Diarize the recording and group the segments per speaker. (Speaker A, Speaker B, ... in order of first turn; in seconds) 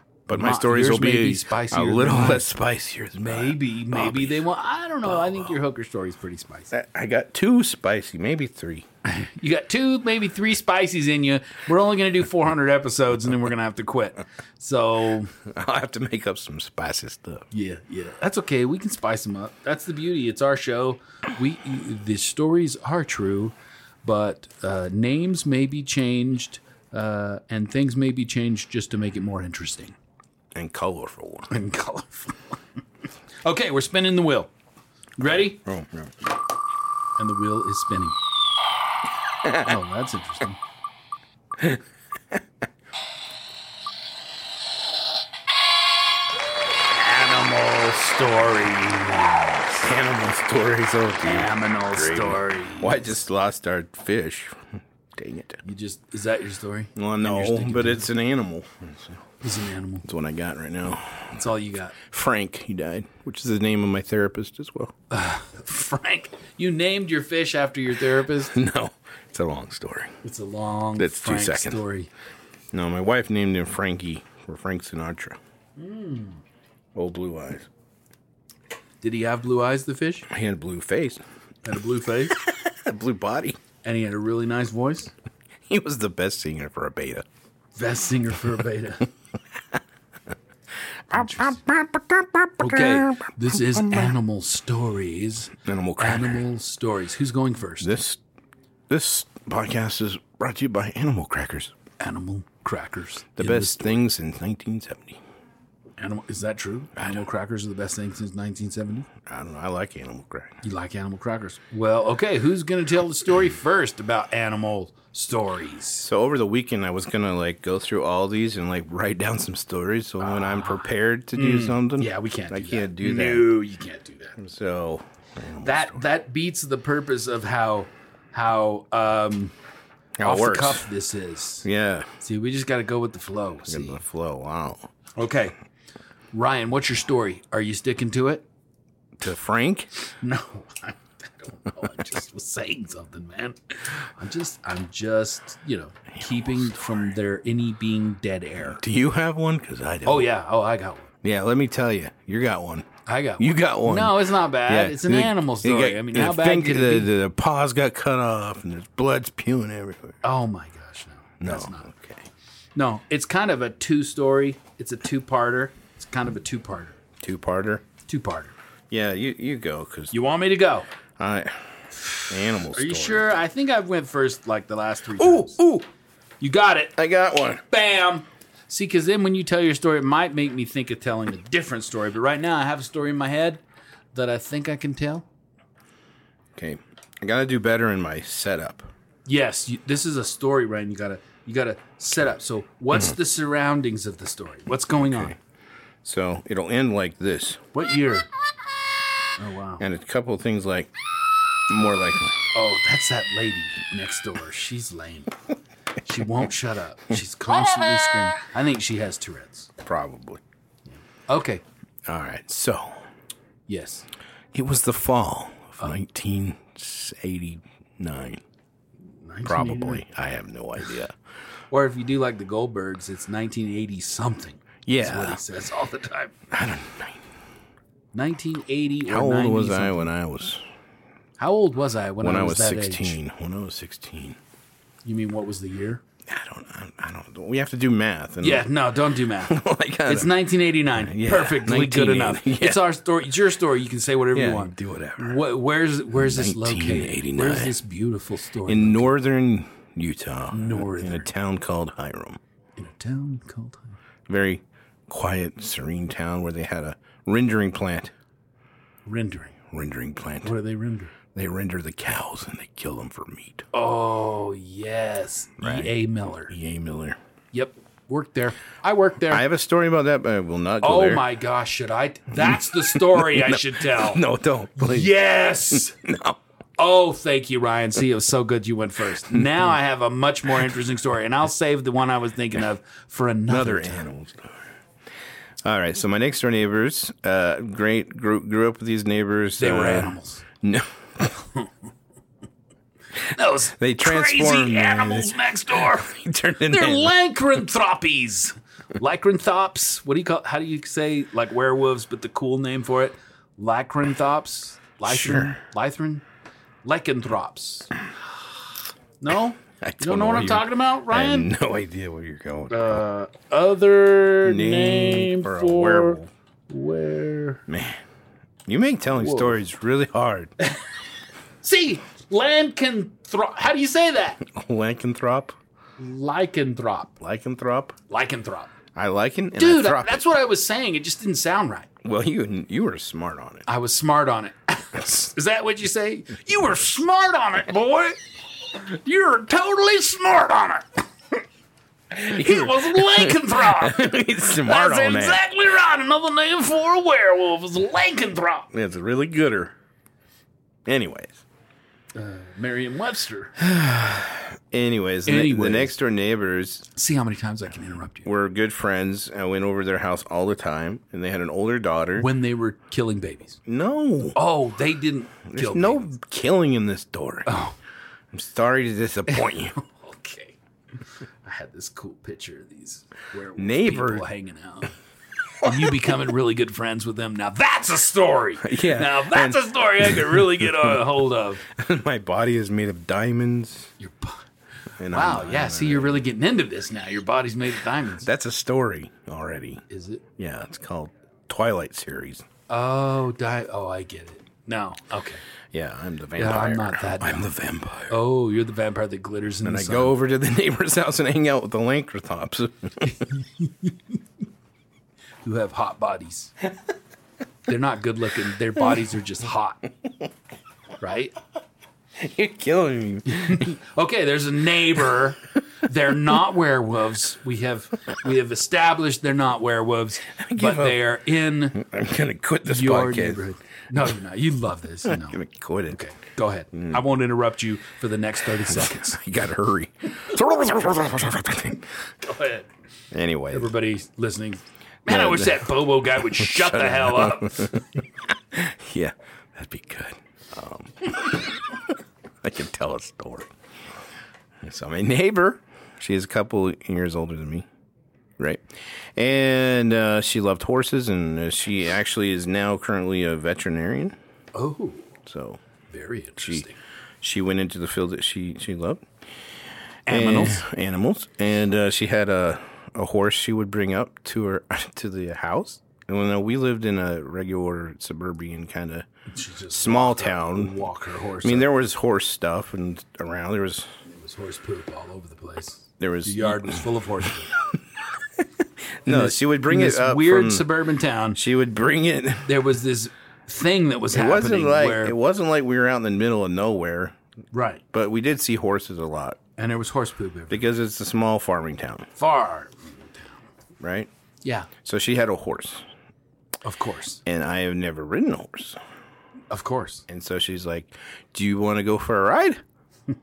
Speaker A: 0.3-4.4, 5.0-5.5, 6.7-8.8, 15.4-17.4, 30.5-31.5, 35.5-36.1, 49.6-55.6, 57.0-59.2, 60.0-61.4, 62.0-64.9, 68.4-70.2, 71.0-71.8, 72.7-75.4, 76.9-77.7, 80.3-81.2, 82.4-83.6, 85.7-87.2, 91.1-94.1, 95.6-96.4, 97.8-98.2, 98.9-101.7, 103.4-105.2, 107.0-107.2, 109.2-110.6, 116.0-123.5, 124.4-126.0, 130.2-130.9, 131.6-132.1, 133.7-134.9, 139.2-139.9, 146.2-147.1, 148.7-150.3, 151.2-152.9, 153.4-160.2, 161.4-162.2, 167.2-167.8, 168.9-170.1, 171.2-173.3, 175.2-175.9, 177.0-177.6, 186.6-188.9, 196.0-197.6, 199.8-200.9, 201.7-202.4, 209.8-210.4, 212.1-213.1, 214.5-218.4, 219.4-221.1, 224.8-225.4, 226.5-227.2, 229.1-230.6, 232.2-234.4, 236.2-242.8, 244.3-245.4, 246.1-247.8, 248.7-252.4, 254.3-258.1, 259.7-260.5, 261.3-263.6, 265.6-265.9, 266.5-267.2, 269.3-271.3, 272.4-275.2, 275.7-276.4, 279.3-279.7, 283.5-284.6, 285.6-291.4, 293.8-297.1, 305.1-305.6, 309.8-313.0, 314.4-316.3, 317.7-318.0, 318.6-320.5, 324.4-325.6, 327.2-327.9, 328.9-330.3, 332.0-333.6, 342.1-345.4, 348.7-349.7, 350.9-351.4, 353.6-356.9, 358.2-362.3, 363.6-364.4, 365.5-367.5, 368.3-369.8, 373.6-374.2, 375.6-375.9, 378.6-381.1, 381.6-383.9, 385.0-386.2, 388.2-389.8, 390.4-392.4, 395.7-398.2, 399.6-403.1, 412.2-413.7, 420.3-421.1, 421.7-423.4, 425.1-426.0, 426.7-427.0, 428.6-431.9, 433.1-433.7, 435.1-435.7, 436.3-443.5, 444.6-447.7, 448.4-454.2, 455.2-455.6, 456.4-456.6, 457.2-459.0, 460.1-469.1, 469.7-470.7, 471.4-473.9, 476.0-476.8, 478.4-480.7, 481.3-482.5, 484.1-487.1, 487.9-489.4, 490.5-492.1, 493.8-494.1, 494.8-495.9, 497.2-498.8, 500.1-502.6
Speaker B: 0.3-2.4, 3.2-6.7, 9.0-15.3, 17.5-29.9, 31.5-32.6, 33.4-34.5, 35.2-35.6, 37.2-38.2, 39.5-40.6, 46.9-49.6, 51.2-53.2, 55.6-58.1, 59.4-60.1, 61.3-62.0, 65.1-68.5, 70.2-72.1, 75.8-76.4, 79.0-80.3, 81.6-82.4, 83.8-85.1, 87.7-89.1, 91.1-91.5, 92.6-97.9, 102.0-104.0, 106.0-109.1, 110.6-116.1, 120.2-120.8, 121.3-124.4, 125.6-129.5, 130.2-131.6, 132.2-134.0, 135.2-135.5, 136.3-138.4, 140.0-148.8, 150.0-151.1, 153.1-157.1, 160.2-161.9, 162.7-167.0, 168.0-168.5, 170.1-170.9, 172.0-175.6, 176.4-176.9, 177.7-183.6, 184.1-185.2, 189.2-195.4, 197.7-198.3, 199.4-199.8, 202.5-205.3, 206.0-209.7, 211.1-211.6, 213.7-214.0, 219.2-220.0, 221.7-226.3, 228.1-230.1, 231.4-233.2, 235.0-236.0, 238.4-249.1, 250.5-251.3, 252.8-253.9, 259.0-259.6, 260.4-261.1, 263.7-266.5, 267.5-269.4, 270.8-274.2, 274.8-276.0, 276.8-284.0, 289.6-290.4, 293.3-306.2, 306.8-307.9, 309.2-311.5, 312.7-317.6, 319.1-319.6, 321.6-324.4, 326.0-327.1, 328.1-328.7, 329.6-331.9, 333.6-341.1, 342.2-348.7, 352.1-353.5, 355.2-355.9, 356.9-358.3, 362.2-363.6, 364.3-366.1, 367.4-367.8, 369.3-370.6, 371.4-374.9, 375.6-381.6, 384.0-384.4, 385.1-388.3, 389.9-390.2, 392.7-395.4, 396.4-397.5, 398.1-400.1, 403.1-403.9, 405.4-406.5, 407.7-409.9, 411.0-411.3, 413.3-421.8, 422.6-429.2, 432.2-432.7, 433.5-437.8, 454.5-455.1, 455.9-456.8, 460.1-460.6, 469.3-471.7, 474.1-477.5, 479.1-481.4, 482.4-485.1, 487.5-487.8, 489.6-490.7, 492.2-493.4, 494.4-494.7, 496.6-497.2, 499.5-500.0